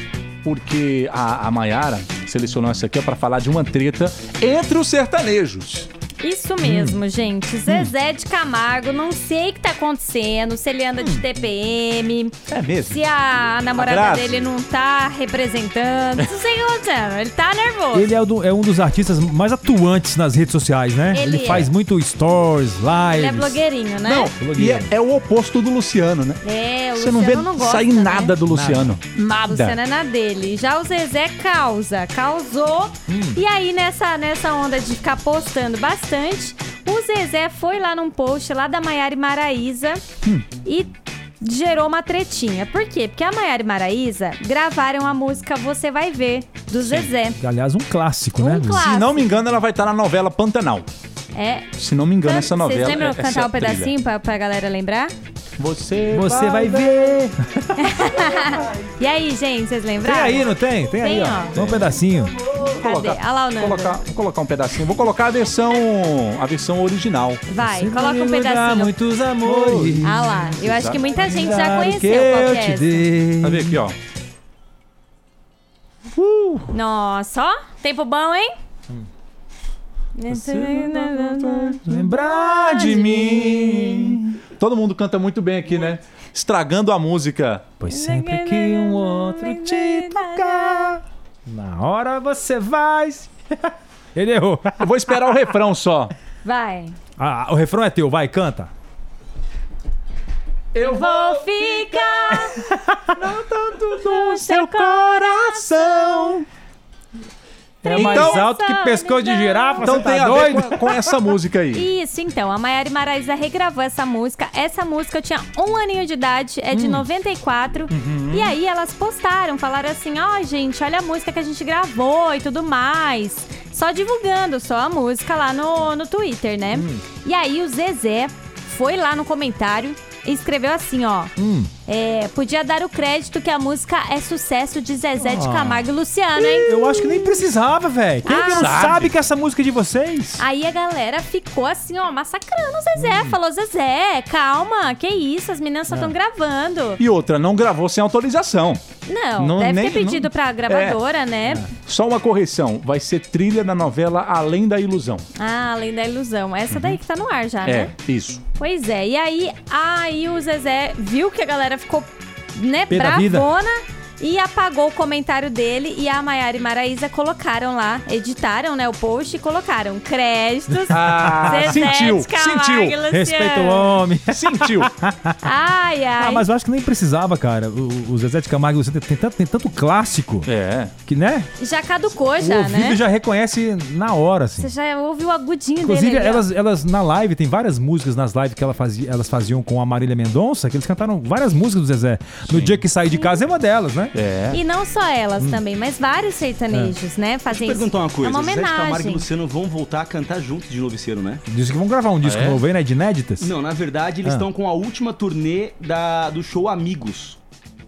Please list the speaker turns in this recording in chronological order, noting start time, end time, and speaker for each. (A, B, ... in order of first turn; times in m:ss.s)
0:00.4-0:05.9 A
0:06.2-0:18.1 B
0:06.6-0:07.0 A
0:07.7-0:07.9 A
0:12.5-0:13.0 A
0:13.8-0:14.5 A
0:17.9-0:23.6 C
0:21.1-0:21.7 B
0:23.1-0:24.3 B
0:24.0-0:26.4 A
0:24.4-0:24.9 C
0:26.4-0:28.4 B
0:27.0-0:29.8 A
0:28.5-0:29.0 C
0:29.4-0:40.0 B
0:33.1-0:33.4 C
0:40.6-0:40.9 B
0:41.4-0:47.4 B
0:46.8-0:47.1 A
0:47.4-0:48.9 C
0:48.4-0:49.4 B
0:48.7-0:50.9 A
0:51.3-0:51.7 B
0:51.8-0:53.9 A
0:52.2-0:55.1 B
0:55.6-0:57.2 A
0:56.1-0:58.1 C
0:57.8-1:01.6 B
1:00.0-1:02.4 C
1:01.5-1:02.0 A
1:02.6-1:07.4 A
1:02.6-1:04.0 B
1:07.5-1:08.9 B
1:07.6-1:13.8 C
1:09.4-1:10.0 A
1:10.0-1:13.1 B
1:10.6-1:11.1 A
1:13.4-1:14.0 A
1:16.2-1:16.8 C
1:16.7-1:18.5 B
1:20.2-1:23.3 B
1:20.3-1:27.8 A
1:21.8-1:24.3 C
1:27.8-1:34.8 C
1:27.9-1:31.0 B
1:34.8-1:36.1 A
1:36.4-1:37.0 B
1:37.2-1:38.7 C
1:40.7-1:42.5 A
1:40.8-1:42.7 B
1:42.4-1:43.1 C
1:43.1-1:46.5 A
1:44.0-1:46.4 B
1:47.8-1:50.0 B
1:47.8-1:51.2 C
1:47.9-1:48.5 A
1:49.8-1:51.9 A
1:51.7-2:11.3 B
1:56.7-1:57.1 C
1:57.9-1:58.5 A
2:06.7-2:07.0 C
2:11.4-2:11.7 C
2:11.9-2:17.2 B
2:15.2-2:20.4 C
2:18.2-2:18.9 B
2:18.5-2:19.1 A
2:20.4-2:27.0 B
2:27.0-2:28.8 A
2:29.1-2:31.7 B
2:29.4-2:31.0 A
2:31.8-2:35.3 A
2:35.4-2:37.9 B
2:36.7-2:37.0 A
2:37.6-2:38.4 A
2:38.6-2:54.0 B
2:42.9-2:43.5 C
2:50.9-2:53.0 A
2:53.1-2:55.4 C
2:54.3-2:54.9 A
2:55.4-2:56.5 B
2:56.2-3:00.5 C
3:00.4-3:00.9 A
3:01.1-3:01.5 C
3:01.6-3:03.0 B
3:02.4-3:04.7 C
3:04.6-3:06.4 B
3:05.8-3:14.2 C
3:12.4-3:12.8 A
3:14.1-3:14.6 A
3:14.5-3:19.3 B
3:17.5-3:21.4 D
3:21.5-3:23.5 C
3:22.2-3:22.6 A
3:23.4-3:27.4 D